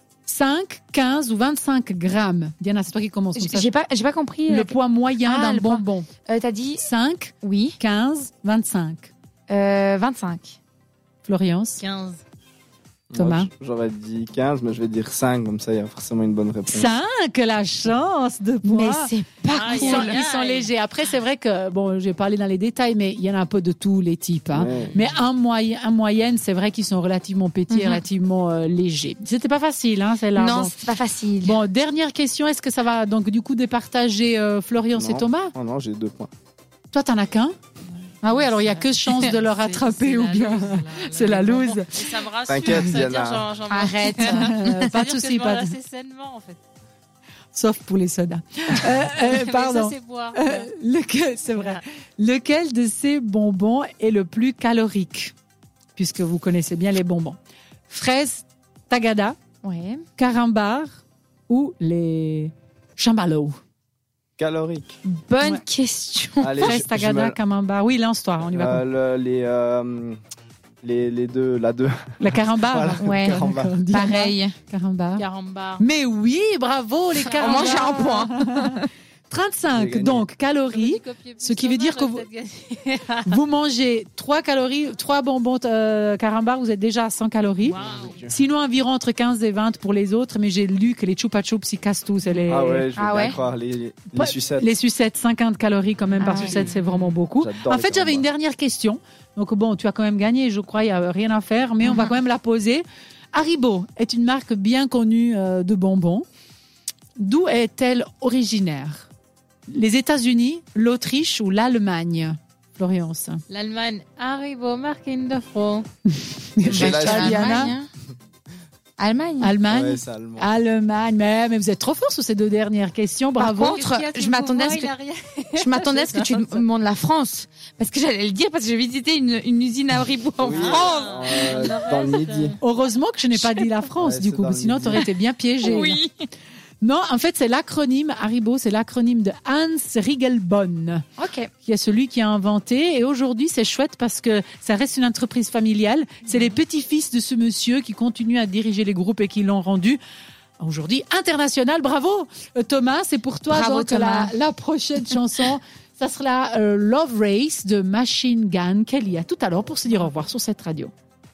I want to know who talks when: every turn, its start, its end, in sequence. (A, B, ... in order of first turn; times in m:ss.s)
0:00.2-0:03.7 A
0:03.4-0:06.8 B
0:04.5-0:06.1 A
0:06.8-0:09.1 A
0:07.4-0:07.8 B
0:09.5-0:10.6 B
0:11.2-0:11.8 A
0:11.8-0:12.2 C
0:13.1-0:16.9 D
0:13.1-0:13.5 A
0:16.7-0:19.1 A
0:18.6-0:20.2 B
0:19.5-0:20.7 C
0:19.7-0:30.7 A
0:24.5-0:25.0 D
0:24.7-0:25.2 C
0:27.7-0:28.0 B
0:30.4-0:31.6 B
0:31.4-0:35.5 A
0:35.0-0:36.3 D
0:36.9-0:37.6 A
0:38.2-0:42.1 A
0:38.2-0:46.6 C
0:42.5-0:43.5 D
0:43.7-0:44.9 B
0:44.1-0:45.8 A
0:47.5-0:55.3 A
0:49.1-0:50.7 C
0:51.5-0:51.8 C
0:56.0-0:57.4 A
0:57.9-0:59.4 A
0:59.6-1:00.0 B
1:00.2-1:03.6 A
1:04.4-1:05.0 D
1:05.0-1:06.8 B
1:06.4-1:07.4 D
1:06.6-1:08.8 A
1:08.4-1:10.2 D
1:10.8-1:13.8 D
1:12.2-1:15.2 A
1:13.0-1:14.5 B
1:15.2-1:15.8 C
1:15.8-1:18.8 A
1:17.2-1:18.1 C
1:17.3-1:18.9 B
1:19.3-1:22.2 A
1:19.7-1:20.2 D
1:20.7-1:23.4 C
1:23.2-1:32.9 A
1:27.6-1:28.3 C
1:27.7-1:28.3 D
1:32.5-1:34.7 D
1:33.0-1:33.4 B
1:34.1-1:46.2 A
1:36.2-1:36.6 B
1:36.2-1:37.2 C
1:37.4-1:38.2 D
1:41.8-1:42.1 B
1:47.2-1:49.1 A
1:49.7-1:53.4 A
1:53.5-1:55.8 C
1:56.1-1:57.8 A
1:56.6-1:57.6 D
1:56.6-1:57.9 B
1:59.0-1:59.5 B
1:59.4-2:03.8 A
1:59.7-2:00.5 D
2:03.4-2:04.9 B
2:03.6-2:06.7 C
2:05.6-2:11.7 B
2:10.4-2:12.6 D
2:10.5-2:12.6 C
2:12.6-2:16.0 A
2:14.0-2:15.0 D
2:15.6-2:16.1 B
2:16.8-2:21.1 A
2:21.2-2:21.5 B
2:21.6-2:30.0 A
2:30.6-2:40.9 A
2:33.5-2:34.3 B